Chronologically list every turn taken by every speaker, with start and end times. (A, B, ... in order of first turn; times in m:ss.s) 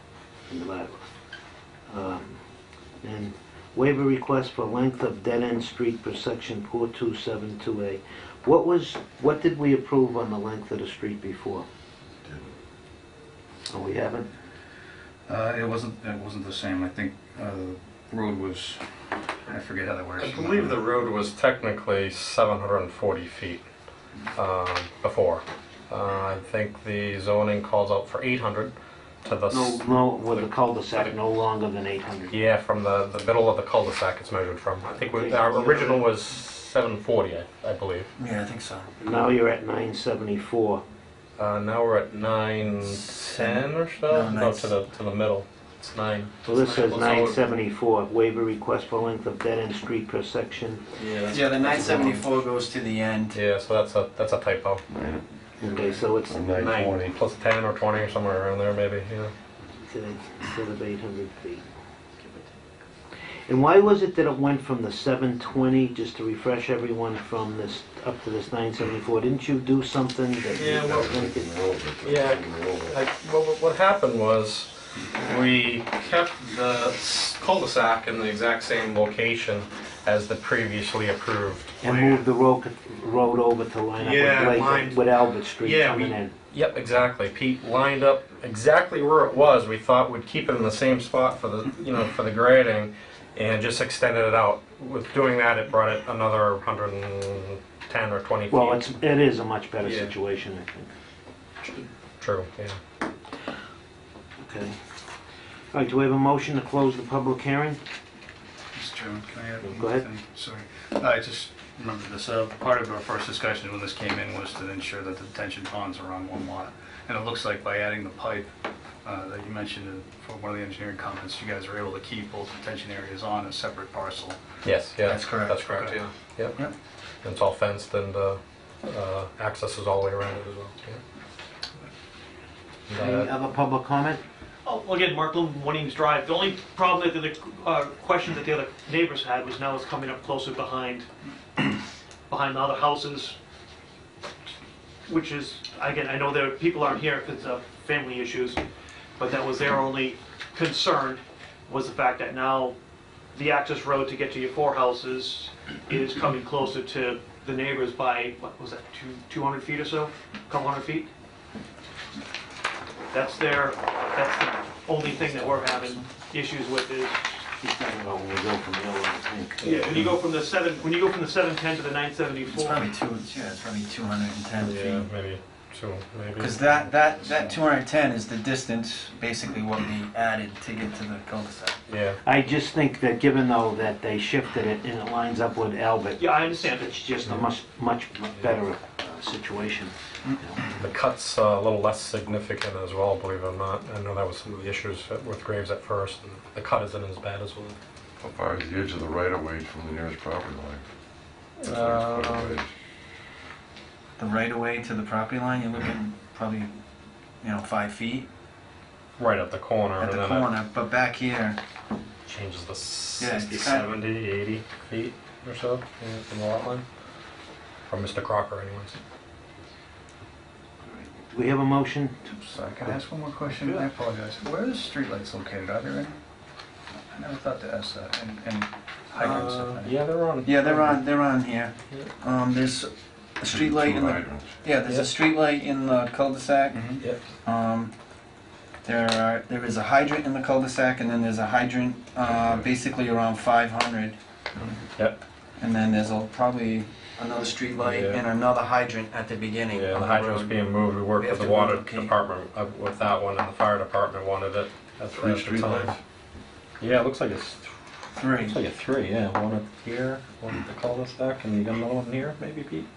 0:00.5-0:01.1 A
0:01.9-0:02.4 A
0:03.0-0:11.6 A
0:13.7-0:14.3 A
0:15.3-0:18.8 B
0:19.4-0:20.8 B
0:20.2-0:23.6 C
0:24.3-0:28.7 C
0:29.2-0:31.1 C
0:29.5-0:32.4 A
0:32.3-0:38.1 C
0:35.0-0:36.0 A
0:38.2-0:38.9 D
0:39.0-0:40.8 A
0:41.4-0:47.4 C
0:42.9-0:44.7 D
0:46.4-0:50.9 A
0:51.0-0:52.0 C
0:51.3-0:53.4 D
0:53.3-0:54.8 C
0:55.0-0:55.2 E
0:55.6-0:56.6 A
0:56.2-0:57.1 E
0:56.5-0:59.3 C
0:59.8-1:01.6 A
1:03.5-1:11.5 A
1:10.5-1:11.0 C
1:10.8-1:13.0 E
1:12.0-1:22.2 C
1:21.8-1:26.3 A
1:24.0-1:25.0 C
1:25.6-1:38.8 C
1:38.5-1:40.9 A
1:39.8-1:40.1 C
1:42.2-1:42.8 C
1:44.4-1:44.8 A
1:45.7-1:47.8 A
1:48.7-1:58.5 B
1:49.6-1:50.0 A
1:59.0-2:04.4 B
2:04.6-2:06.6 C
2:05.0-2:05.6 D
2:05.6-2:06.0 B
2:07.2-2:11.0 C
2:12.9-2:13.3 C
2:12.9-2:14.2 A
2:14.6-2:21.1 F
2:22.3-2:23.4 F
2:25.1-2:28.6 F
2:29.2-2:32.8 F
2:33.3-2:41.1 F
2:43.1-2:47.2 F
2:47.6-2:49.6 A
2:49.6-2:50.2 C
2:49.6-2:52.8 F
2:52.5-2:55.0 D
2:54.6-2:56.9 C
2:56.4-3:01.8 D
2:57.3-2:57.5 B
3:01.9-3:02.2 C
3:02.2-3:10.7 A
3:06.2-3:06.9 F
3:10.8-3:17.8 C
3:18.2-3:20.8 E
3:21.6-3:22.6 C
3:21.7-3:22.7 E
3:24.2-3:26.7 D
3:27.4-3:28.3 D
3:29.2-3:30.5 C
3:30.0-3:31.6 D
3:32.2-3:36.8 C
3:33.2-3:33.9 D
3:37.9-3:39.0 C
3:41.3-3:42.3 A
3:42.3-3:46.2 B
3:47.1-3:50.0 B
3:49.2-3:51.0 C
3:49.2-3:49.5 D
3:50.4-3:56.9 D
3:53.4-3:54.6 E
3:54.8-3:55.1 C
3:56.7-3:57.0 B
3:57.4-3:57.9 D
3:58.8-4:04.2 D
4:02.2-4:02.7 E
4:05.6-4:10.6 D
4:07.8-4:08.2 C
4:09.7-4:16.0 C
4:11.2-4:12.1 D
4:15.1-4:16.0 E
4:16.8-4:17.7 C
4:18.1-4:18.6 D
4:18.3-4:22.9 C